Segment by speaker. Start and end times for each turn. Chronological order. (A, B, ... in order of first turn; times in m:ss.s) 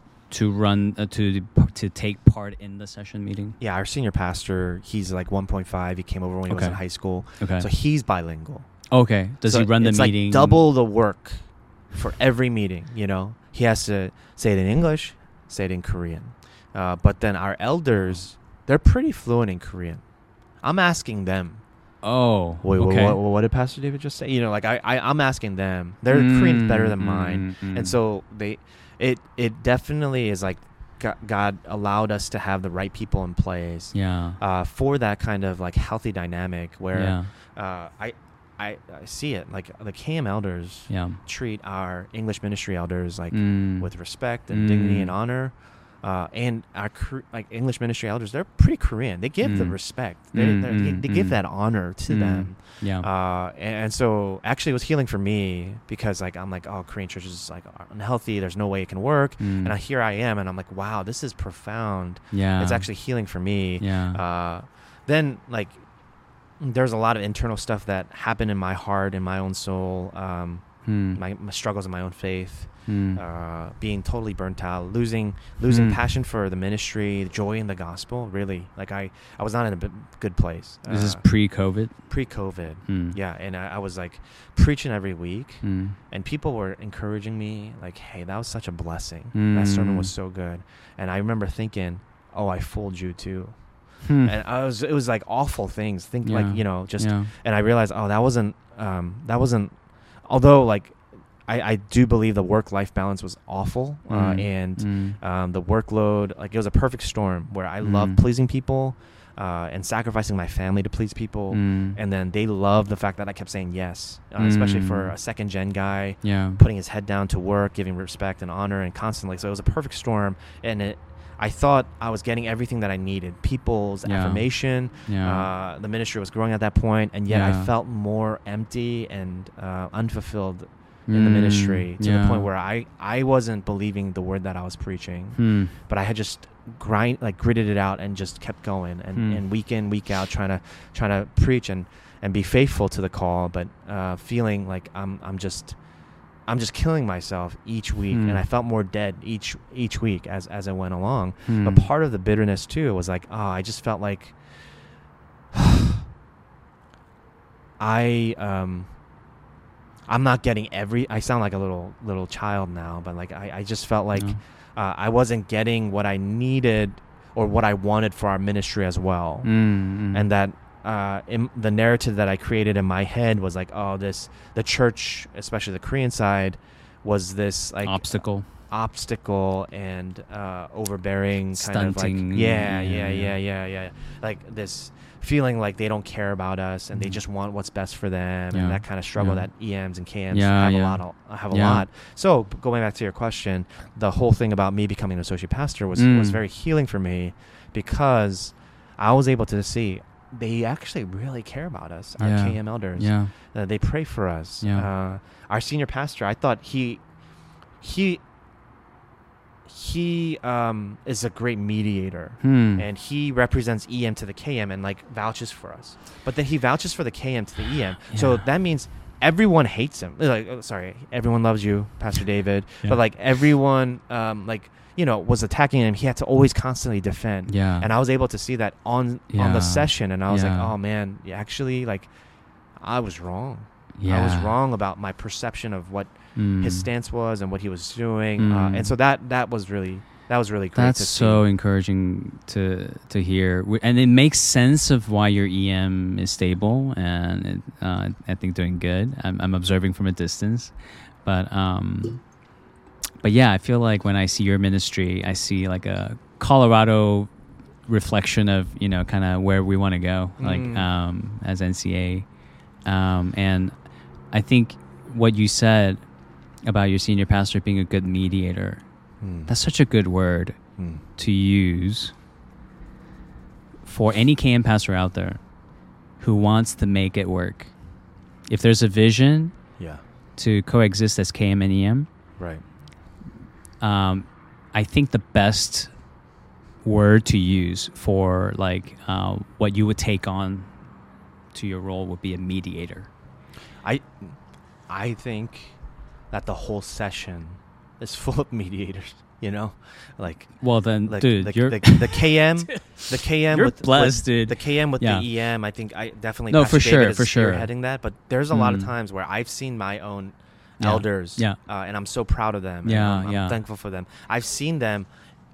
0:00.3-0:03.6 A
0:03.6-0:21.9 B
0:06.5-0:07.7 A
0:08.9-0:10.7 A
0:22.0-0:23.2 A
0:22.6-2:35.8 B
0:26.1-0:28.0 A
0:33.9-0:34.4 A
0:36.9-0:37.3 A
0:40.9-0:41.2 A
0:43.3-0:45.1 A
0:49.4-0:53.1 A
0:59.4-0:59.8 A
1:02.3-1:03.2 A
1:03.8-1:04.2 A
1:10.8-1:11.2 A
1:12.9-1:13.2 A
1:15.7-1:16.0 A
1:20.9-1:23.2 A
1:25.6-1:26.0 A
1:29.3-1:30.1 A
1:34.0-1:34.4 A
1:36.2-1:37.3 A
1:44.1-1:45.2 A
1:47.8-1:48.2 A
1:51.5-1:52.0 A
1:54.4-1:55.2 A
1:56.2-1:56.6 A
2:04.0-2:05.5 A
2:07.3-2:07.7 A
2:11.1-2:12.5 A
2:15.4-2:15.8 A
2:19.1-2:19.4 A
2:28.1-2:28.4 A
2:31.5-2:31.9 A
2:37.8-2:39.1 B
2:40.1-3:28.2 B
2:44.2-2:44.4 A
2:49.4-2:50.3 A
2:57.8-2:58.5 A
3:01.6-3:03.4 A
3:06.9-3:07.2 A
3:08.5-3:11.9 A
3:16.0-3:16.4 A
3:22.2-3:23.5 A
3:24.6-3:24.9 A
3:29.6-4:01.5 B
3:32.4-3:32.8 A
3:38.1-3:38.5 A
3:47.5-3:47.9 A
3:49.3-3:50.7 A
3:54.0-3:54.6 A
3:56.4-3:56.9 A
3:58.4-3:58.9 A
4:00.8-4:12.4 A
4:13.2-4:32.2 A
4:20.4-4:20.9 B
4:29.2-4:29.5 B
4:30.8-4:31.0 B
4:33.8-4:39.8 A
4:39.8-4:40.0 B
4:40.3-4:42.1 A
4:42.4-4:42.6 B
4:43.8-4:46.2 A
4:46.8-4:50.9 A
4:51.5-4:53.1 A
4:53.8-5:15.1 B
5:00.6-5:05.3 A
5:06.5-5:07.8 A
5:08.5-5:08.9 A
5:10.8-5:11.6 A
5:12.8-5:13.6 A